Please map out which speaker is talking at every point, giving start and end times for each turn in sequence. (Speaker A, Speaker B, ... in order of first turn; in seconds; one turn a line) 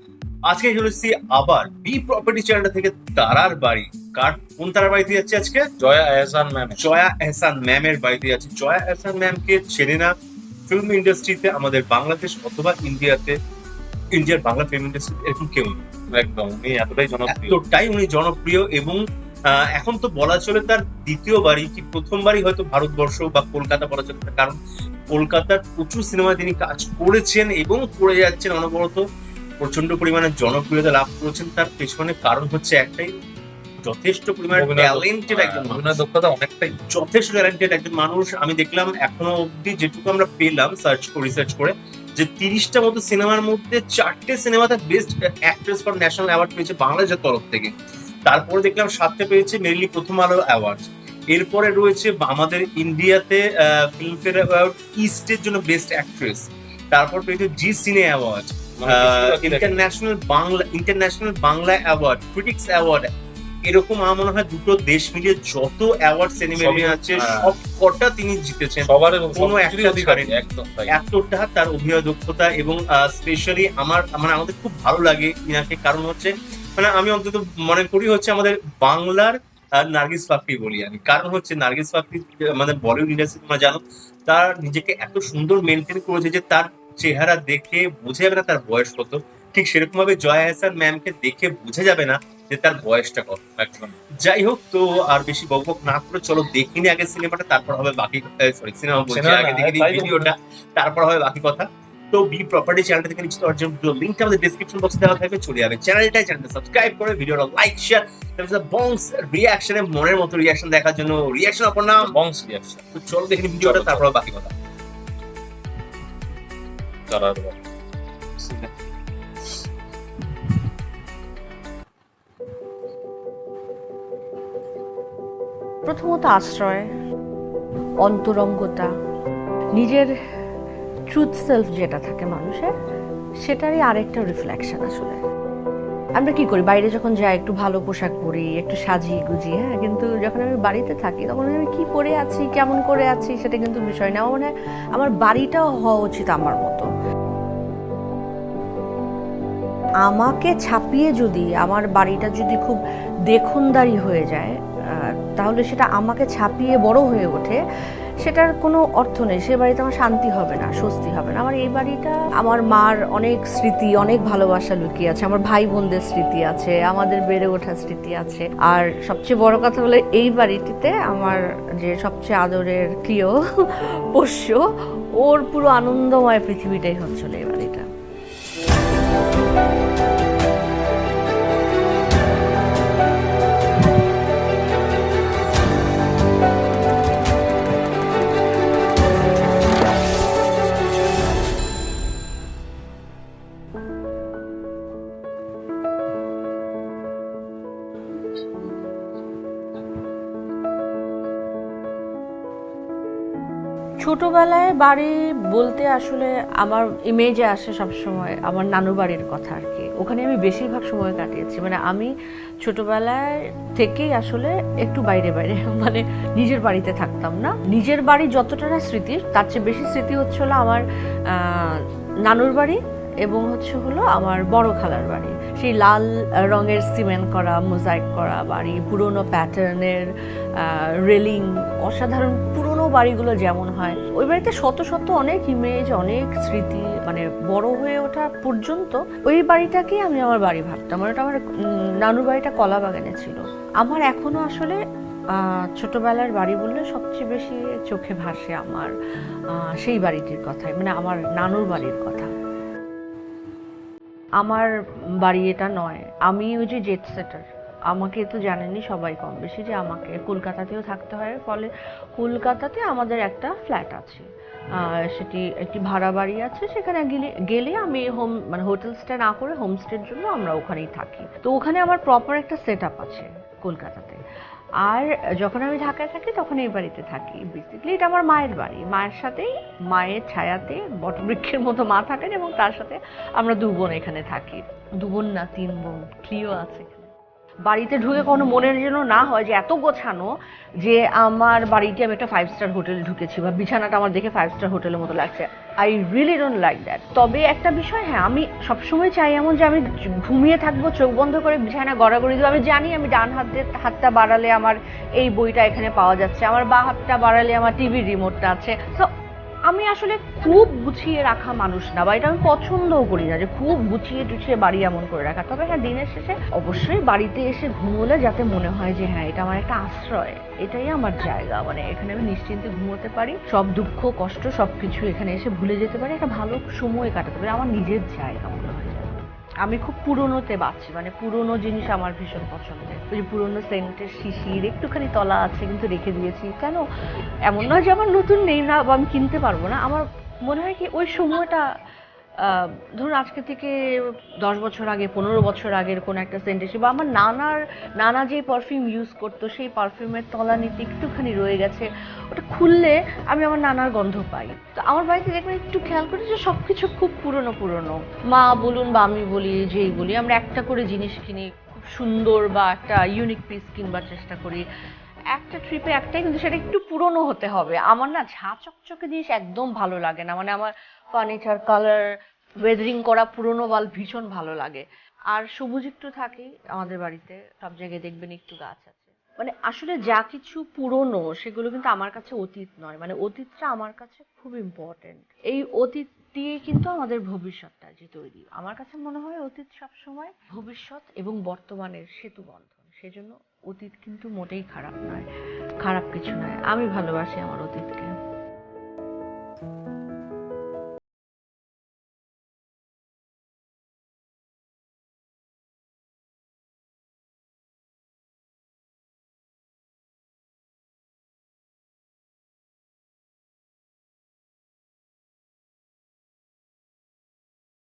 Speaker A: 0.5-5.7
Speaker B: 5.8-6.8
Speaker A: 6.8-10.1
Speaker A: 10.7-13.4
Speaker A: 14.1-15.8
Speaker B: 16.1-17.6
Speaker A: 17.3-24.6
Speaker A: 25.1-29.0
Speaker A: 29.6-33.1
Speaker A: 33.8-36.0
Speaker B: 34.6-36.7
Speaker A: 36.9-47.7
Speaker A: 48.2-63.1
Speaker B: 58.8-59.9
Speaker A: 63.6-70.4
Speaker B: 66.5-67.5
Speaker B: 68.8-70.9
Speaker A: 70.9-112.1
Speaker B: 99.1-100.3
Speaker B: 112.0-112.8
Speaker A: 112.9-114.5
Speaker B: 113.6-114.1
Speaker B: 117.1-117.6
Speaker B: 118.4-118.7
Speaker C: 125.8-126.9
Speaker C: 128.0-128.9
Speaker C: 129.8-130.1
Speaker C: 131.1-132.7
Speaker C: 133.4-135.2
Speaker C: 136.2-146.9
Speaker C: 150.0-154.5
Speaker C: 155.3-157.6
Speaker C: 158.2-173.4
Speaker C: 174.2-174.6
Speaker C: 175.2-177.9
Speaker C: 204.0-212.1
Speaker C: 212.6-213.2
Speaker C: 213.8-220.8
Speaker C: 221.4-221.8
Speaker C: 222.3-230.1
Speaker C: 230.6-241.4
Speaker C: 242.0-244.8
Speaker C: 245.4-248.9
Speaker C: 249.6-252.3
Speaker C: 254.4-254.7
Speaker C: 255.2-264.2
Speaker C: 264.8-274.2
Speaker C: 274.8-287.1
Speaker C: 287.7-290.3
Speaker C: 290.8-309.1
Speaker C: 309.7-336.8
Speaker C: 337.5-341.6
Speaker C: 342.4-343.7
Speaker C: 344.4-364.6
Speaker C: 365.3-372.0
Speaker C: 372.6-395.2
Speaker C: 395.8-398.1